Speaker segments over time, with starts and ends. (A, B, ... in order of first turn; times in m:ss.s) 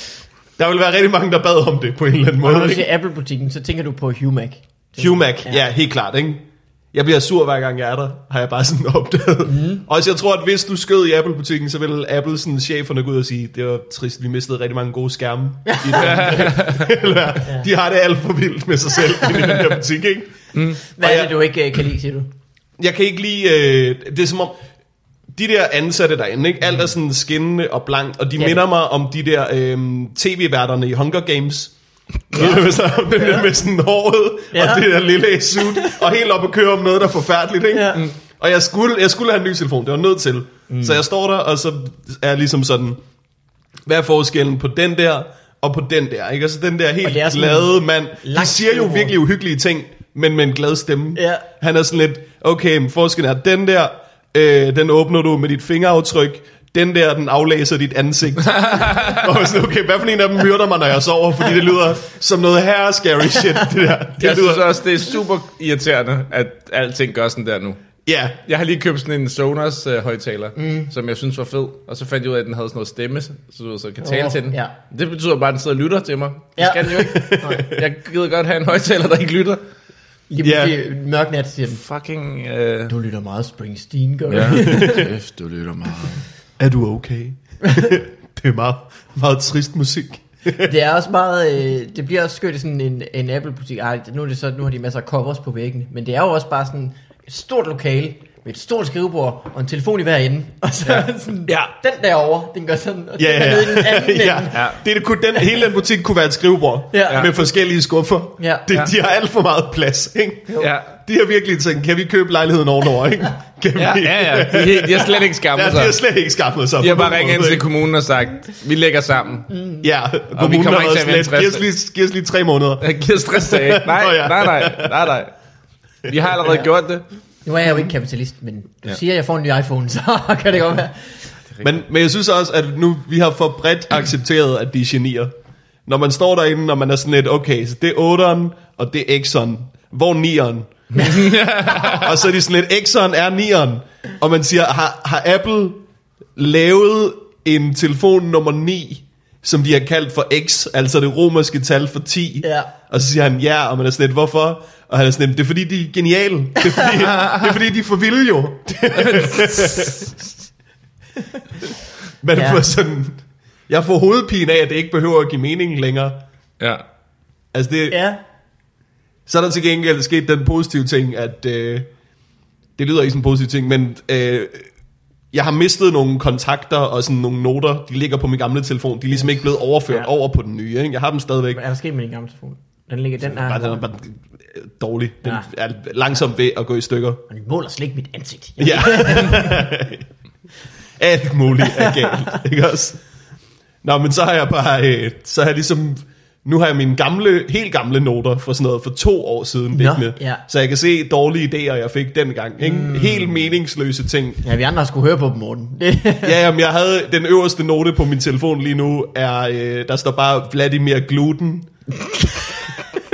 0:00.6-0:02.9 A
0:02.4-0:05.6 B
0:05.0-0:20.3 A
0:09.4-0:09.8 B
0:15.6-0:16.5 B
0:16.0-0:16.9 C
0:20.5-0:20.8 C
0:20.9-0:22.3 B
0:21.0-0:21.3 A
0:22.8-0:24.6 A
0:25.3-0:31.7 A
0:28.4-0:28.6 B
0:32.3-0:43.0 A
0:32.4-0:33.5 B
0:34.5-0:34.9 B
0:35.6-0:36.0 B
0:37.7-0:38.1 B
0:40.7-0:41.0 B
0:43.8-1:04.8 A
0:47.0-0:49.1 B
0:51.1-0:51.4 B
0:58.6-0:59.3 C
1:04.2-1:07.8 C
1:08.0-1:08.4 A
1:08.5-1:19.6 C
1:10.6-1:10.9 B
1:14.0-1:14.7 B
1:16.6-1:17.7 B
1:17.0-1:17.8 A
1:20.3-1:21.8 B
1:20.4-1:20.7 A
1:21.7-1:22.9 C
1:22.9-1:25.1 B
1:24.3-1:26.2 C
1:24.6-1:25.0 A
1:26.6-1:30.7 A
1:27.6-1:27.9 B
1:30.6-1:44.7 B
1:43.2-1:57.6 A
1:44.5-1:44.8 C
1:46.9-1:47.3 B
1:48.4-1:48.6 B
1:50.6-1:50.9 C
1:53.8-1:56.0 C
1:56.8-1:59.5 C
1:59.5-1:59.8 B
1:59.8-2:05.1 A
2:00.3-2:01.6 C
2:02.8-2:05.3 C
2:06.0-2:07.0 C
2:07.4-2:11.3 B
2:11.6-2:15.3 A
2:15.8-2:25.8 A
2:20.9-2:22.2 C
2:26.4-2:40.1 A
2:32.4-2:32.7 B
2:36.6-2:36.9 B
2:37.0-2:37.6 C
2:39.0-2:40.0 C
2:42.2-2:46.2 A
2:42.3-2:42.6 B
2:47.5-2:48.0 A
2:47.9-2:48.2 B
2:49.3-2:51.9 A
2:52.8-2:54.7 A
2:55.3-3:01.6 A
3:01.5-3:03.8 B
3:03.2-3:07.2 A
3:07.3-3:09.7 B
3:08.6-3:10.0 A
3:11.0-3:13.0 A
3:11.6-3:12.4 B
3:13.8-3:24.4 A
3:19.7-3:20.4 B
3:22.6-3:23.3 B
3:24.4-3:26.4 B
3:26.2-3:31.7 A